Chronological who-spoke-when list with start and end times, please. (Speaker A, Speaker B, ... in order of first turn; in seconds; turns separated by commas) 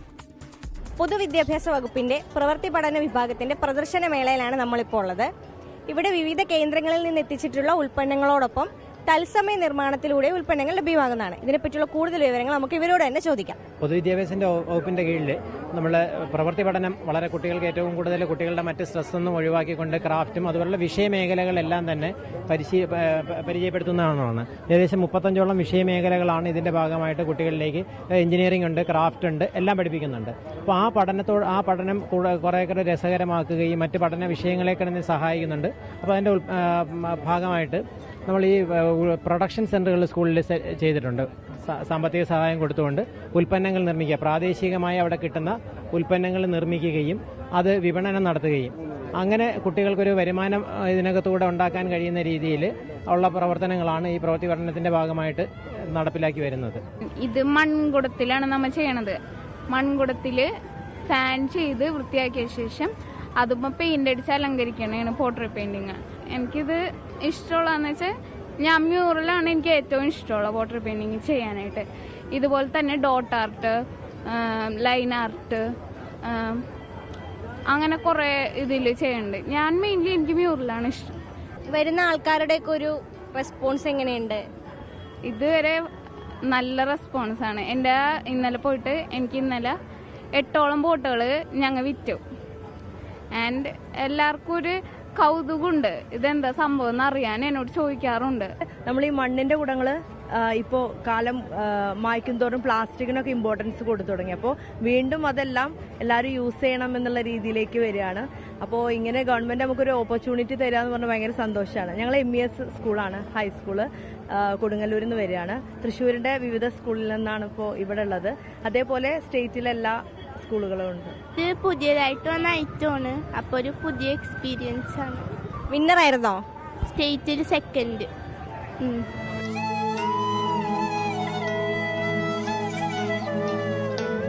Speaker A: 1.0-5.3, Speaker A: 5.9-13.6, Speaker B: 13.8-56.8, Speaker C: 57.2-59.2, Speaker C: 59.7-60.5, Speaker C: 61.1-68.1, Speaker C: 68.6-73.8, Speaker C: 74.3-75.6, Speaker C: 76.3-76.6, Speaker C: 77.7-81.1, Speaker A: 81.7-84.4, Speaker C: 85.3-85.8, Speaker C: 86.5-89.8, Speaker C: 90.4-92.2, Speaker C: 93.4-98.5, Speaker D: 98.9-121.1, Speaker E: 121.4-125.3, Speaker A: 125.7-126.4, Speaker E: 126.9-128.1, Speaker E: 128.8-129.1